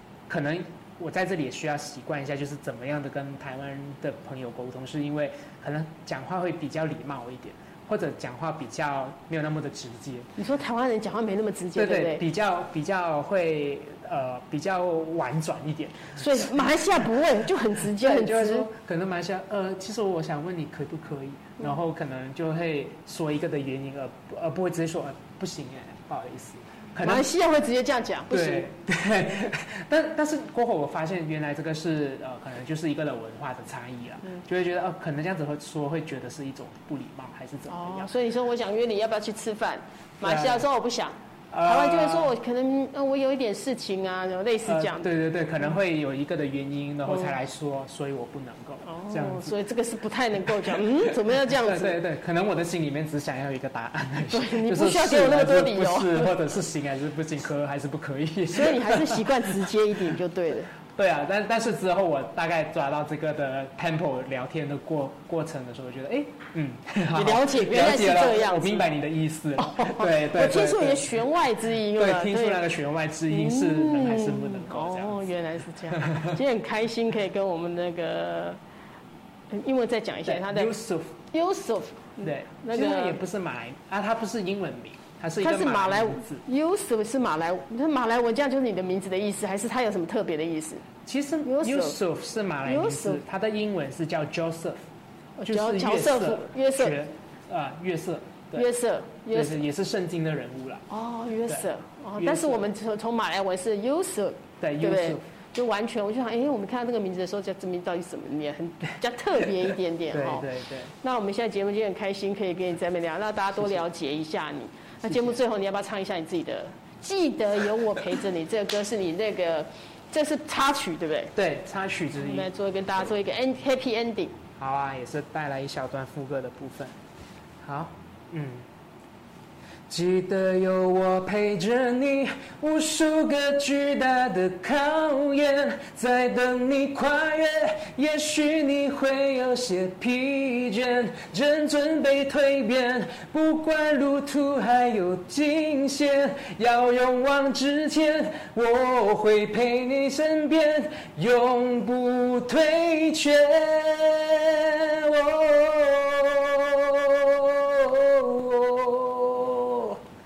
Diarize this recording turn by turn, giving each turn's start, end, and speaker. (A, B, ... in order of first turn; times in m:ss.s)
0:00.3-0:10.3 A
0:10.4-0:12.2 B
0:11.8-0:16.8 A
0:16.2-0:18.7 B
0:17.8-0:27.3 A
0:27.0-0:28.7 B
0:28.3-0:38.1 A
0:37.7-0:45.1 B
0:40.2-0:40.7 A
0:41.5-0:42.3 A
0:44.6-0:49.6 A
0:48.8-0:52.0 B
0:50.5-0:59.7 A
0:54.3-0:56.3 B
0:58.5-1:00.7 B
1:00.9-1:15.2 A
1:07.1-1:08.9 B
1:09.6-1:12.6 B
1:13.3-1:18.6 B
1:15.9-1:16.4 A
1:19.5-1:20.8 B
1:20.2-1:21.2 A
1:21.3-1:23.2 B
1:22.2-1:26.4 A
1:25.4-1:30.8 B
1:31.1-1:34.8 A
1:31.4-1:32.0 B
1:32.7-1:33.2 B
1:35.4-1:37.0 B
1:35.5-1:38.7 A
1:38.6-1:39.6 B
1:39.3-1:40.8 A
1:40.9-1:50.5 B
1:42.2-1:42.7 A
1:44.6-1:45.2 A
1:49.4-1:50.9 A
1:51.0-2:01.3 B
1:53.6-1:53.8 A
1:55.1-1:55.4 A
2:01.4-2:02.5 A
2:02.2-2:04.4 B
2:04.6-2:07.0 A
2:07.6-2:08.7 A
2:09.9-2:40.0 A